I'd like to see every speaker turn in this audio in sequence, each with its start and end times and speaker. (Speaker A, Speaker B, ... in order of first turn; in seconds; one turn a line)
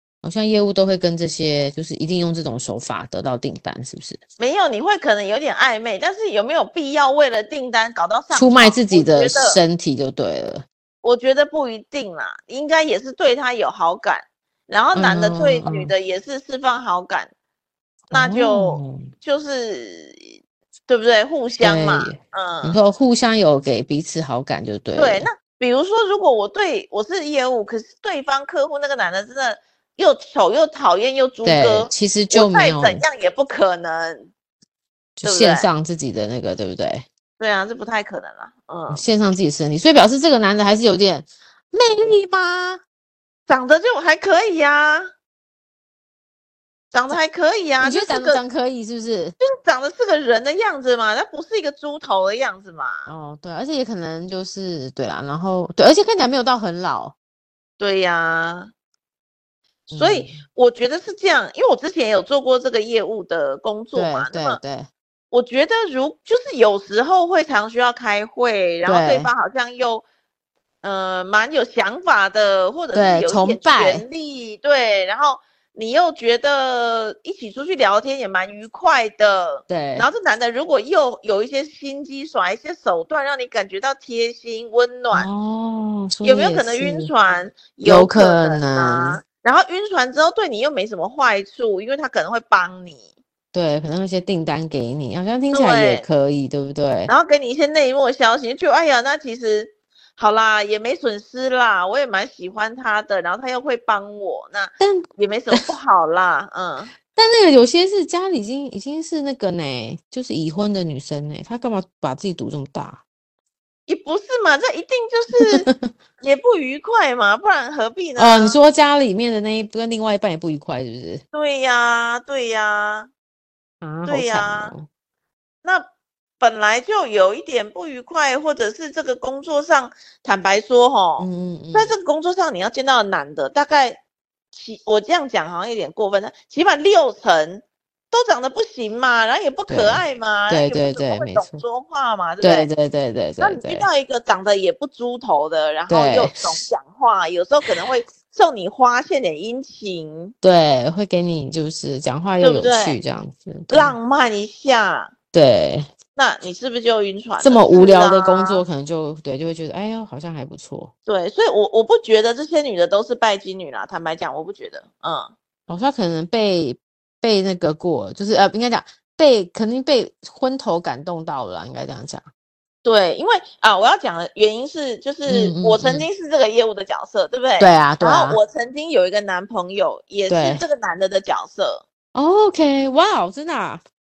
Speaker A: 0.2-4.2
Speaker B: 4.4-9.6
Speaker A: 8.3-10.7
Speaker B: 11.0-17.3
Speaker A: 14.9-15.9
Speaker A: 18.1-19.1
Speaker B: 18.1-20.4
Speaker B: 20.9-22.8
Speaker A: 21.6-25.3
Speaker B: 24.9-34.3
Speaker A: 31.4-33.0
Speaker A: 35.2-37.1
Speaker B: 35.2-35.7
Speaker B: 37.4-39.0
Speaker A: 38.9-42.8
Speaker B: 43.5-45.1
Speaker B: 46.9-48.4
Speaker A: 47.8-49.4
Speaker B: 49.4-53.1
Speaker A: 53.1-57.1
Speaker B: 57.8-58.7
Speaker A: 59.9-60.4
Speaker B: 59.9-64.6
Speaker A: 63.9-64.9
Speaker B: 65.3-70.0
Speaker A: 68.8-69.3
Speaker B: 70.8-85.3
Speaker A: 72.9-74.0
Speaker A: 79.7-80.1
Speaker A: 85.1-87.1
Speaker B: 86.2-93.0
Speaker A: 87.8-89.2
Speaker A: 93.5-97.1
Speaker B: 95.5-96.1
Speaker B: 97.1-106.9
Speaker A: 104.8-105.6
Speaker A: 107.1-113.0
Speaker B: 113.9-115.7
Speaker A: 115.4-115.9
Speaker B: 116.2-118.6
Speaker A: 118.2-121.2
Speaker B: 121.3-123.1
Speaker A: 123.8-124.9
Speaker B: 124.1-124.7
Speaker B: 126.4-134.0
Speaker A: 131.2-131.9
Speaker B: 134.5-142.7
Speaker A: 139.7-141.6
Speaker A: 142.4-143.9
Speaker B: 143.4-150.3
Speaker A: 145.9-146.5
Speaker A: 150.4-153.9
Speaker B: 152.4-153.0
Speaker B: 153.7-155.1
Speaker A: 155.3-155.9
Speaker B: 156.2-158.6
Speaker A: 157.4-160.9
Speaker B: 161.1-165.3
Speaker A: 165.7-172.2
Speaker B: 172.8-181.8
Speaker A: 175.3-176.1
Speaker A: 177.6-178.4
Speaker A: 180.3-180.6
Speaker A: 182.2-183.8